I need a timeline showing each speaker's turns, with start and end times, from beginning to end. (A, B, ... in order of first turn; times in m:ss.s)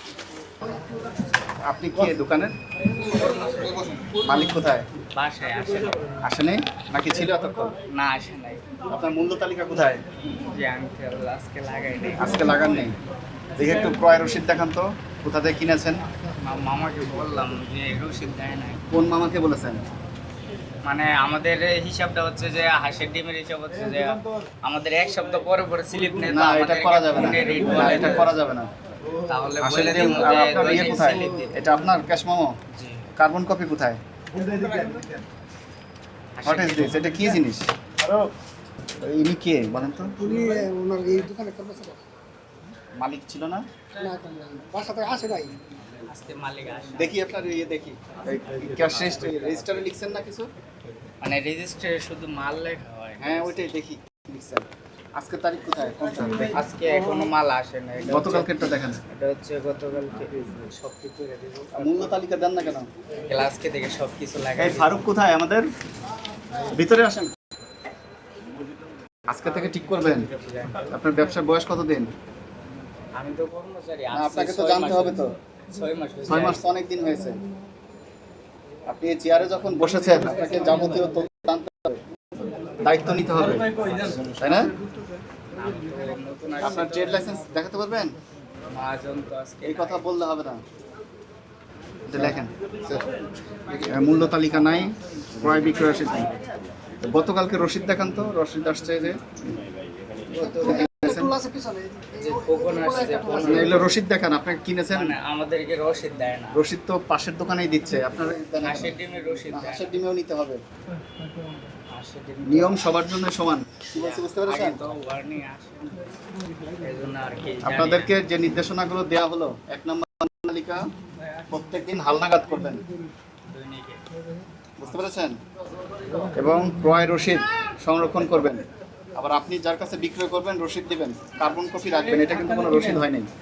0:01.6-0:02.5 A
0:04.2-0:04.8 A
0:05.2-0:06.1 B
0:06.2-0:07.7 A
0:07.9-0:08.6 B
0:08.9-0:10.0 A
0:10.4-0:12.5 B
0:12.2-0:12.9 A
0:13.6-0:16.0 A
0:16.4-0:18.8 B
0:18.9-0:19.8 A
0:20.8-0:28.3 B
0:26.2-0:28.7 A
0:29.2-0:31.5 B
0:29.6-0:32.5 A
0:32.7-0:33.0 B
0:33.2-0:34.0 A
0:36.4-0:37.2 B
0:36.4-0:37.7 A
0:39.0-0:40.1 A
0:40.2-0:42.0 C
0:43.0-0:43.6 A
0:44.0-0:45.6 C
0:46.0-0:47.2 B
0:47.0-0:50.5 A
0:51.2-0:53.7 B
0:53.2-0:54.6 A
0:55.2-0:56.6 A
0:56.5-0:58.5 B
0:58.1-0:59.0 A
0:59.1-1:02.2 B
1:01.7-1:02.9 A
1:03.2-1:05.0 B
1:04.6-1:05.6 A
1:06.7-1:07.3 A
1:09.3-1:10.3 A
1:10.1-1:10.9 B
1:10.9-1:12.1 A
1:13.2-1:16.6 B
1:14.1-1:15.3 A
1:16.3-1:17.4 A
1:18.9-1:22.0 A
1:22.6-1:23.7 A
1:23.7-1:24.3 B
1:24.4-1:24.7 A
1:25.5-1:27.3 B
1:26.6-1:28.1 A
1:28.7-1:30.1 B
1:29.6-1:30.6 A
1:32.1-1:33.0 A
1:33.7-1:36.3 A
1:37.0-1:39.2 A
1:40.4-1:41.3 A
1:40.4-1:43.6 C
1:42.1-1:43.9 B
1:43.4-1:45.1 A
1:44.9-1:46.6 B
1:46.5-1:48.9 A
1:48.6-1:50.0 B
1:49.5-1:50.6 A
1:51.9-1:52.8 B
1:52.5-1:54.9 A
1:53.9-1:56.0 B
1:56.8-1:58.1 B
1:57.6-2:00.8 A
2:01.5-2:02.8 A
2:03.4-2:04.0 B
2:04.8-2:05.4 A
2:06.3-2:08.6 A
2:09.1-2:13.3 A